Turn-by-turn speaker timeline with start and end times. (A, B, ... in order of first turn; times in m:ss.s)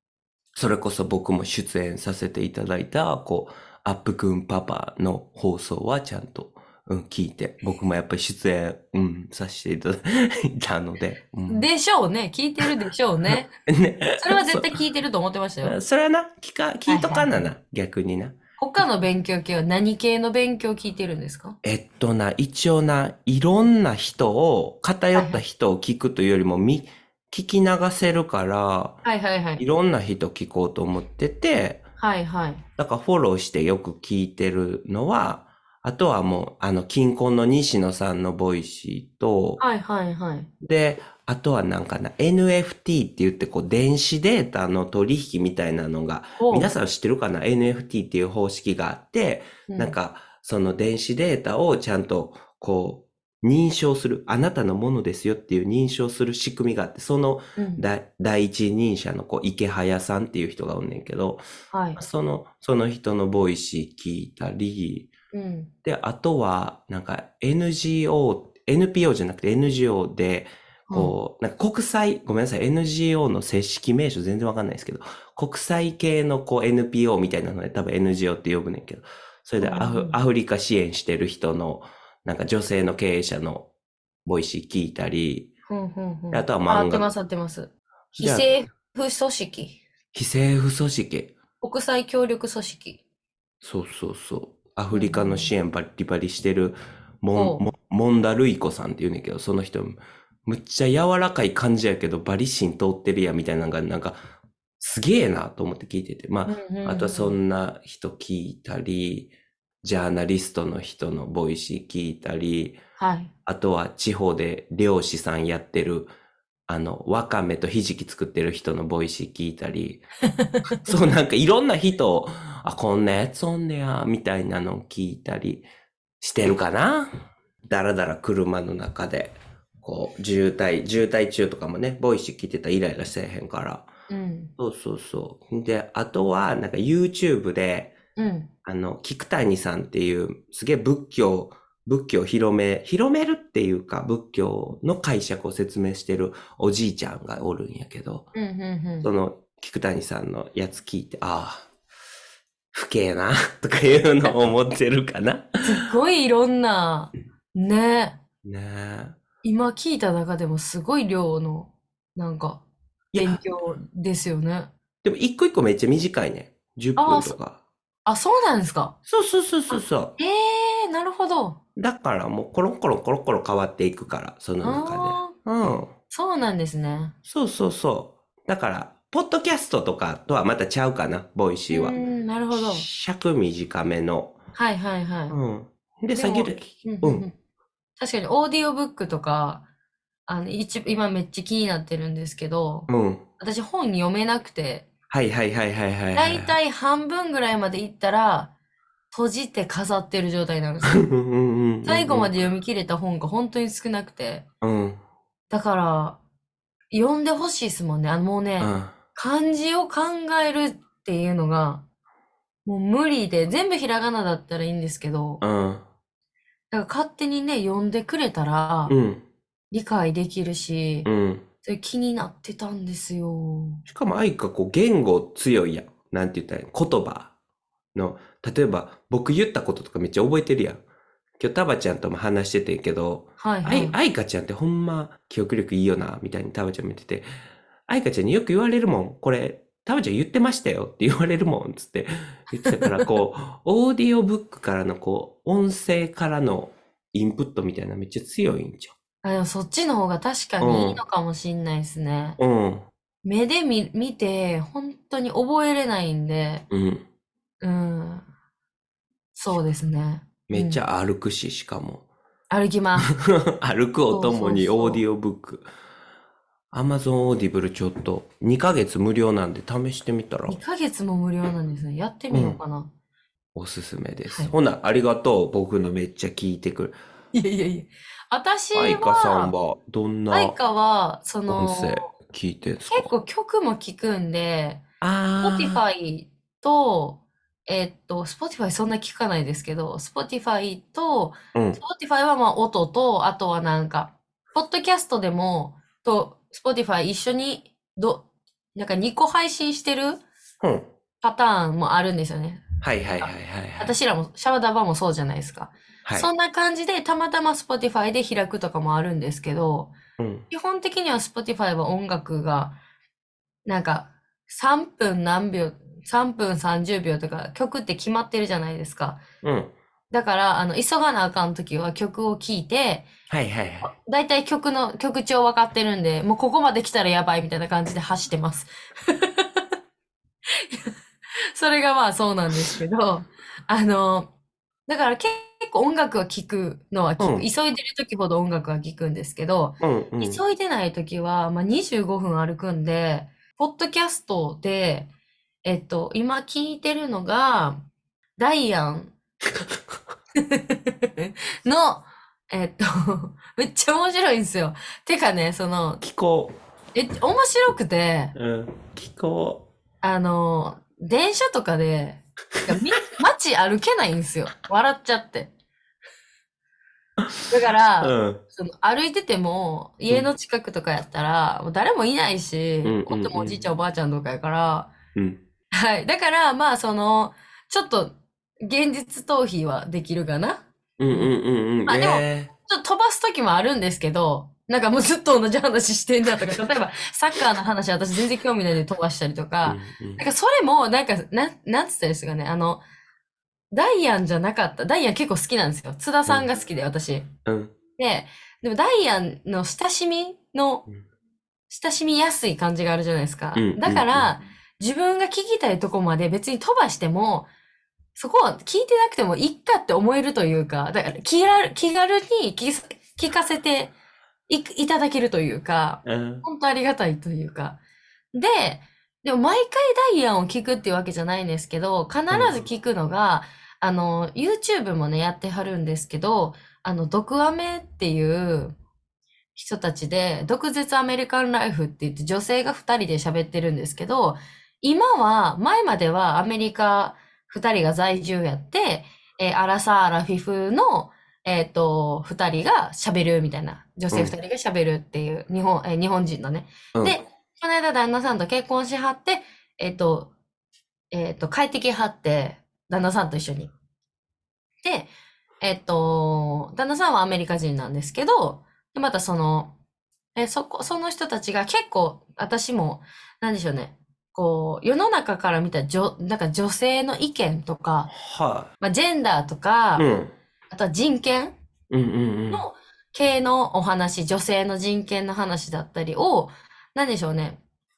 0:00.6-0:11.7 A
0:11.5-0:13.5 B
0:13.3-0:14.7 A
0:14.2-0:15.8 B
0:15.6-0:18.4 A
0:16.9-0:17.5 B
0:18.6-0:21.6 B
0:21.6-0:29.0 A
0:25.2-0:25.4 B
0:29.0-0:29.6 B
0:29.6-0:31.8 A
0:32.0-0:32.6 B
0:32.8-0:39.6 A
0:39.6-0:40.5 B
0:40.6-1:01.4 A
0:46.4-0:46.7 B
0:49.7-0:50.0 B
0:57.6-0:57.8 B
1:01.7-1:02.0 B
1:02.0-1:05.1 A
1:05.3-1:05.7 B
1:05.8-1:23.7 A
1:10.9-1:11.1 B
1:19.6-1:20.2 B
1:24.2-1:25.5 A
1:25.7-1:29.8 B
1:26.3-1:27.1 A
1:28.2-1:28.5 A
1:30.1-1:31.4 A
1:31.6-1:33.0 B
1:33.6-1:44.2 A
1:34.9-1:35.5 B
1:37.3-1:37.7 B
1:44.8-1:49.3 A
1:46.5-1:47.4 B
1:49.8-1:52.8 A
1:53.0-1:53.3 B
1:53.5-1:56.1 A
1:56.7-2:00.0 A
2:00.4-2:00.8 B
2:00.8-2:05.7 A
2:06.2-2:07.1 A
2:07.6-2:13.9 A
2:14.1-2:14.5 B
2:14.6-2:18.0 A
2:18.2-2:18.5 B
2:18.6-2:28.3 A
2:28.3-2:29.1 B
2:29.0-2:31.7 A
2:32.7-2:35.5 A
2:35.6-2:38.2 B
2:38.4-2:39.2 A
2:39.4-2:42.6 B
2:43.1-2:43.4 A
2:43.2-2:44.7 B
2:45.0-2:47.6 A
2:47.0-2:47.4 B
2:48.1-2:49.0 B
2:49.1-2:50.2 A
2:49.7-2:51.6 B
2:51.8-2:55.9 A
2:54.6-2:55.4 B
2:56.1-2:57.1 B
2:57.3-3:02.0 A
3:01.7-3:02.9 B
3:02.5-3:04.4 A
3:04.6-3:05.4 B
3:05.3-3:07.3 A
3:06.1-3:07.3 B
3:08.0-3:09.7 B
3:10.3-3:14.9 B
3:12.9-3:13.2 A
3:15.1-3:16.6 A
3:16.2-3:18.5 B
3:19.1-3:21.1 B
3:20.9-3:22.4 A
3:21.8-3:24.5 B
3:24.6-3:25.0 A
3:25.5-3:26.2 B
3:26.9-3:31.8 B
3:28.6-3:29.0 A
3:32.7-3:35.4 B
3:35.4-3:35.8 A
3:36.7-3:39.0 B
3:38.9-3:39.2 A
3:39.7-3:41.1 B
3:41.0-3:41.4 A
3:41.6-3:43.8 B
3:43.9-3:47.3 A
3:48.0-3:50.8 A
3:51.4-3:57.3 A
3:53.4-3:54.0 B
3:57.9-4:08.9 A
4:02.6-4:03.1 B
4:09.2-4:12.4 B
4:10.6-4:11.0 A
4:12.4-4:12.9 A
4:13.2-4:16.6 B
4:16.7-4:17.0 A
4:17.6-4:18.2 B
4:19.3-4:20.8 B
4:20.5-4:22.0 A
4:22.5-4:23.1 B
4:23.1-4:25.7 A
4:24.1-4:25.0 B
4:26.7-4:30.6 A
4:30.5-4:32.9 B
4:32.3-4:32.6 A
4:33.6-4:37.0 A
4:34.3-4:34.5 B
4:37.3-4:39.5 B
4:38.7-4:40.6 A
4:40.3-4:42.1 B
4:41.5-4:43.1 A
4:42.9-4:44.8 B
4:45.0-4:45.8 A
4:45.4-5:00.2 B
4:51.5-4:51.8 A
5:00.6-5:00.9 A
5:01.2-5:09.9 B
5:02.8-5:03.9 A
5:10.2-5:10.5 A
5:10.5-5:12.8 B
5:13.6-5:19.2 B
5:19.4-5:19.7 A
5:20.1-5:23.1 B
5:23.3-5:23.9 A
5:23.8-5:29.7 B
5:30.5-5:30.9 B
5:31.5-5:34.3 B
5:34.9-5:45.1 B
5:37.2-5:37.5 A
5:39.8-5:40.4 A
5:45.6-5:47.8 B
5:48.4-5:49.1 B
5:50.4-5:56.0 B
5:56.0-5:56.5 A
5:57.0-5:58.4 B
5:58.4-5:59.7 A
6:00.0-6:05.5 B
6:07.2-6:08.4 A
6:07.5-6:14.9 B
6:12.8-6:13.7 A
6:15.2-6:15.4 A
6:15.7-6:21.4 B
6:21.0-6:22.5 A
6:21.9-6:32.8 B
6:29.6-6:30.2 A
6:33.7-6:37.3 B
6:37.5-6:37.8 A
6:38.0-6:40.9 B
6:41.7-6:47.5 B
6:43.6-6:44.3 A
6:48.2-6:53.9 B
6:54.5-6:57.8 B
6:56.0-6:56.5 A
6:58.3-7:08.8 B
7:02.3-7:02.6 A
7:09.6-7:30.3 B
7:26.9-7:27.2 A
7:31.1-7:33.7 B
7:34.8-7:39.8 B
7:40.4-7:48.1 B
7:48.1-7:48.7 A
7:48.8-7:50.1 B
7:50.0-7:50.3 A
7:50.7-7:51.6 B
7:51.9-7:52.6 A
7:52.5-7:57.6 B